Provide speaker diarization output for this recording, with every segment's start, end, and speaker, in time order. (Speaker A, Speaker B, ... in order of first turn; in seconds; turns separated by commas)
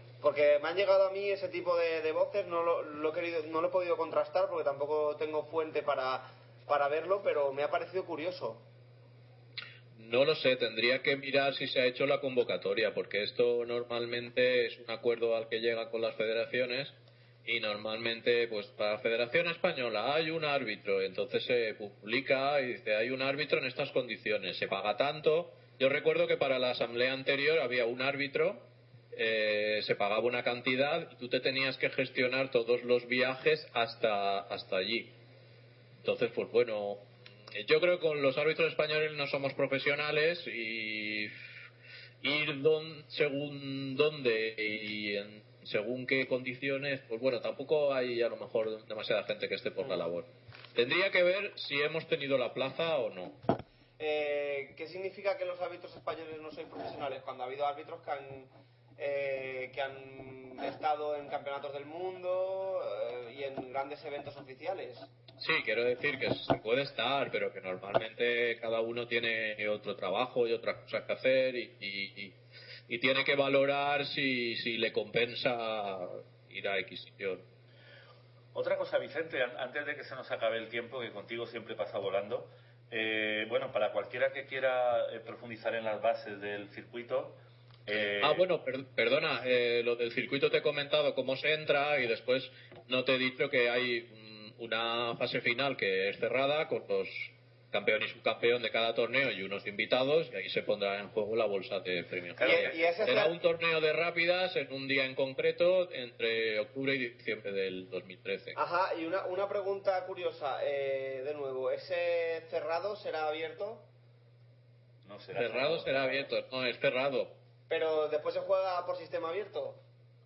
Speaker A: 0.2-8.6, Speaker B: 9.9-35.1, Speaker B: 36.0-41.3, Speaker B: 42.2-53.4, Speaker A: 54.0-65.1, Speaker B: 65.4-72.3, Speaker B: 72.9-77.4, Speaker C: 78.5-88.5, Speaker B: 88.2-108.5, Speaker C: 102.3-103.1, Speaker A: 102.4-103.4, Speaker A: 108.5-113.9, Speaker C: 115.0-116.3, Speaker B: 115.3-117.3, Speaker A: 117.7-119.8